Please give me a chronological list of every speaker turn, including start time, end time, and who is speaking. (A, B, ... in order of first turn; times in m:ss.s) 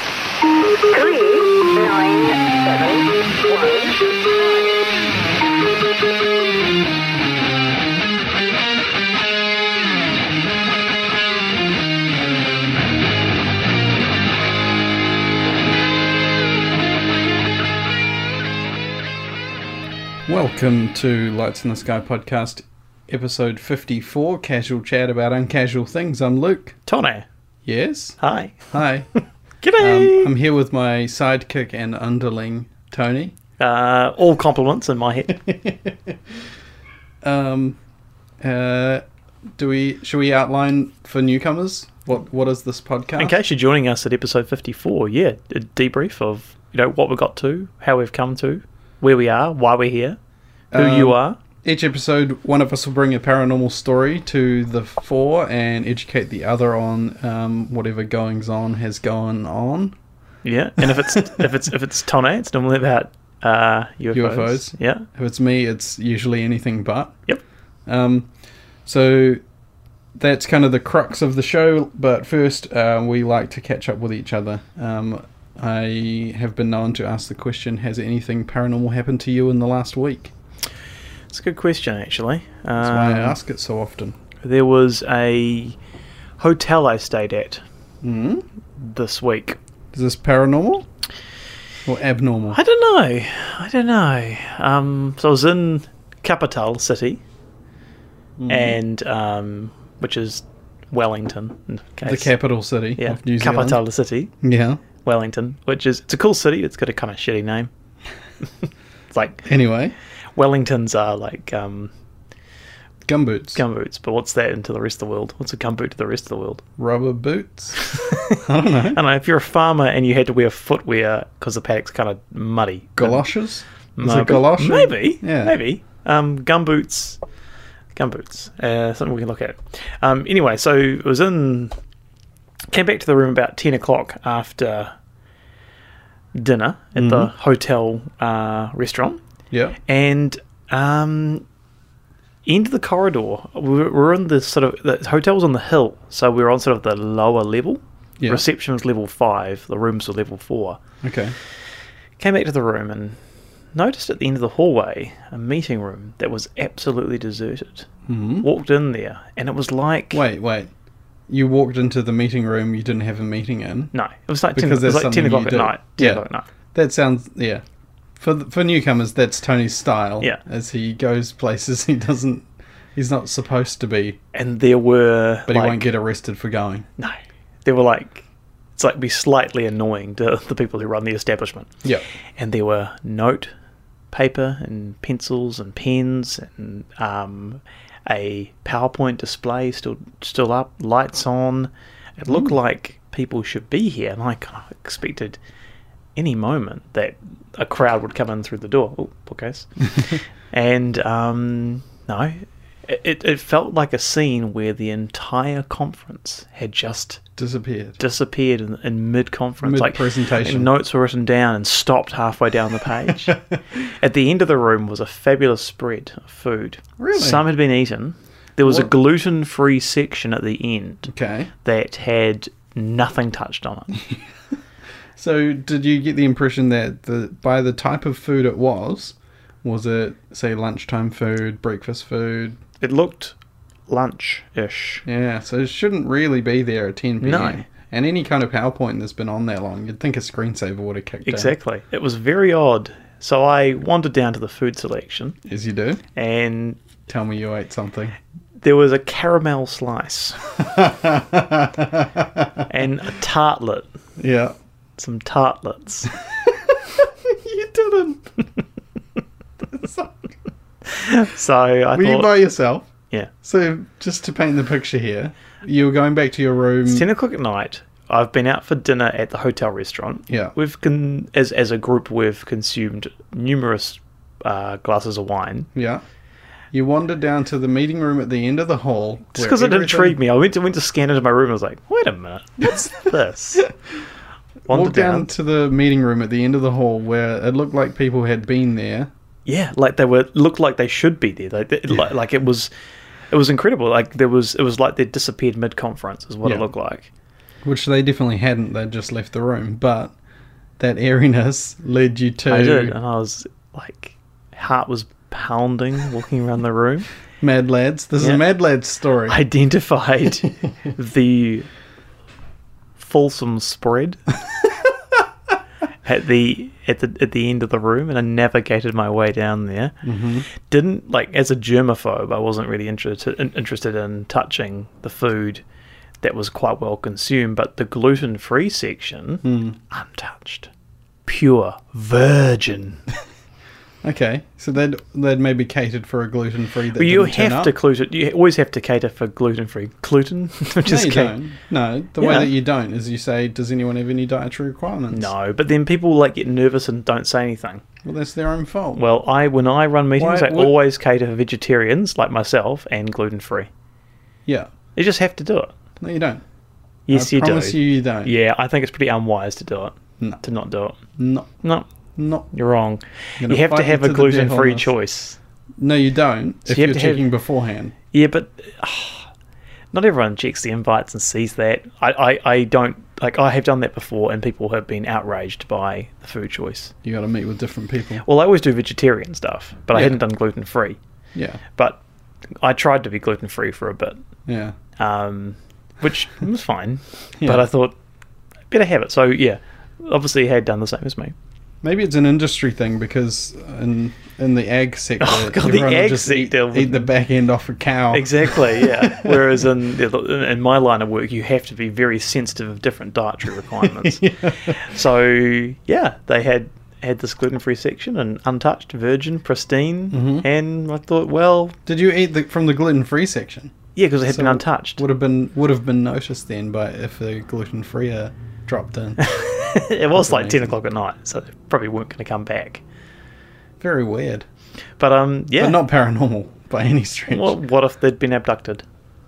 0:00.8-0:04.3 A
0:20.3-0:26.8 B
0:26.8-0:27.2 A
0:27.6-0:28.2 B
0:28.2-0:28.7 A
0:28.7-0:29.1 B
0:29.6-0:30.3 A
0:29.8-0:33.3 B
0:33.6-0:35.4 A
0:35.3-0:36.2 B
0:37.2-0:37.8 B
0:38.4-0:39.0 B
0:39.6-0:43.4 B
0:43.2-0:50.2 A
0:50.7-0:59.9 B
0:50.7-0:51.4 A
1:00.4-1:05.0 A
1:00.8-1:01.4 B
1:04.1-1:07.2 B
1:07.8-1:08.3 B
1:08.8-1:09.4 B
1:10.2-1:20.3 B
1:21.3-1:23.4 A
1:22.8-1:24.2 B
1:24.4-1:25.8 A
1:26.4-1:27.6 A
1:28.0-1:28.4 B
1:28.8-1:29.6 A
1:29.9-1:30.9 B
1:31.8-1:32.6 B
1:32.5-1:37.2 A
1:38.4-1:38.8 B
1:38.5-1:42.3 A
1:42.0-1:43.8 B
1:43.0-1:44.3 A
1:44.4-1:44.8 B
1:45.0-1:47.7 A
1:48.6-1:49.4 A
1:49.4-1:49.9 B
1:50.4-1:51.9 A
1:53.0-1:53.6 B
1:53.5-1:56.6 A
1:56.8-1:57.8 B
1:57.7-2:03.2 A
1:58.4-1:59.0 B
2:03.0-2:05.6 B
2:04.0-2:07.2 A
2:08.0-2:11.7 A
2:12.7-2:14.9 A
2:16.3-2:19.2 A
2:17.0-2:17.3 B
2:19.5-2:19.8 B
2:19.9-2:21.4 A
2:22.4-2:30.8 A
2:31.0-2:31.3 B
2:32.2-2:33.2 A
2:33.7-2:37.9 A
2:38.1-2:38.5 B
2:38.4-2:40.2 A
2:40.1-2:40.7 B
2:41.3-2:43.9 B
2:43.9-2:46.5 A
2:44.5-2:47.6 B
2:48.2-2:54.2 B
2:54.3-2:55.9 A
2:55.5-2:56.9 B
2:57.0-3:01.7 A
3:02.4-3:03.5 A
3:04.1-3:15.4 A
3:12.3-3:12.5 B
3:16.2-3:27.2 A
3:27.4-3:28.0 B
3:28.0-3:41.1 A
3:29.6-3:30.7 B
3:33.3-3:33.6 B
3:37.0-3:37.4 B
3:38.6-3:38.9 B
3:41.1-3:41.5 B
3:41.6-3:44.0 A
3:44.0-3:44.2 B
3:45.2-3:52.6 B
3:52.8-3:53.3 A
3:53.9-3:55.0 A
3:55.0-4:01.5 B
3:57.2-3:57.6 A
4:01.2-4:05.4 A
4:05.4-4:06.0 B
4:06.1-4:06.8 A
4:07.1-4:08.1 B
4:08.6-4:10.5 A
4:10.6-4:12.7 B
4:12.7-4:13.9 A
4:14.2-4:14.5 B
4:15.0-4:16.1 A
4:16.3-4:18.3 B
4:19.7-4:20.2 B
4:20.8-4:22.3 A
4:21.9-4:22.9 B
4:23.4-4:27.1 B
4:26.8-4:35.7 A
4:30.3-4:30.5 B
4:35.7-4:36.0 B
4:36.7-4:40.2 B
4:39.3-4:43.7 A
4:42.6-4:43.0 B
4:44.7-4:49.1 B
4:44.7-4:45.3 A
4:49.4-4:52.7 A
4:53.3-4:57.1 A
4:57.6-5:00.1 B
5:00.8-5:03.0 B
5:02.5-5:07.1 A
5:07.4-5:09.4 B
5:09.3-5:11.7 A
5:13.0-5:14.2 A
5:16.0-5:19.9 A
5:20.0-5:20.5 B
5:20.5-5:25.6 A
5:26.2-5:30.7 A
5:29.4-5:29.8 B
5:31.2-5:33.0 A
5:34.0-5:37.7 B
5:37.0-5:41.4 A
5:40.8-5:45.3 B
5:42.2-5:42.5 A
5:45.1-5:47.8 A
5:48.0-5:49.0 B
5:49.0-5:53.7 A
5:50.2-5:50.8 B
5:54.9-5:55.7 A
5:56.0-5:56.4 B
5:57.1-6:01.0 A
5:57.1-5:58.3 B
6:01.2-6:01.5 B
6:01.6-6:01.9 A
6:02.2-6:02.5 B
6:02.5-6:05.4 A
6:03.4-6:04.9 B
6:05.8-6:07.9 B
6:06.7-6:07.2 A
6:08.1-6:09.3 A
6:09.9-6:16.9 A
6:17.0-6:18.2 B
6:18.2-6:21.0 A
6:19.9-6:20.2 B
6:21.3-6:21.6 B
6:22.6-6:24.2 A
6:24.4-6:24.7 B
6:25.0-6:27.9 A
6:28.7-6:31.3 A
6:31.8-6:39.7 B
6:35.2-6:37.0 A
6:38.1-6:51.8 A
6:43.6-6:44.8 B
6:50.1-6:50.4 B
6:51.8-6:53.7 B
6:54.0-6:55.0 A
6:54.2-6:59.2 B
6:59.2-7:02.8 A
7:00.1-7:00.7 B
7:03.8-7:04.4 B
7:05.0-7:05.8 A
7:05.6-7:07.5 B
7:07.3-7:08.8 A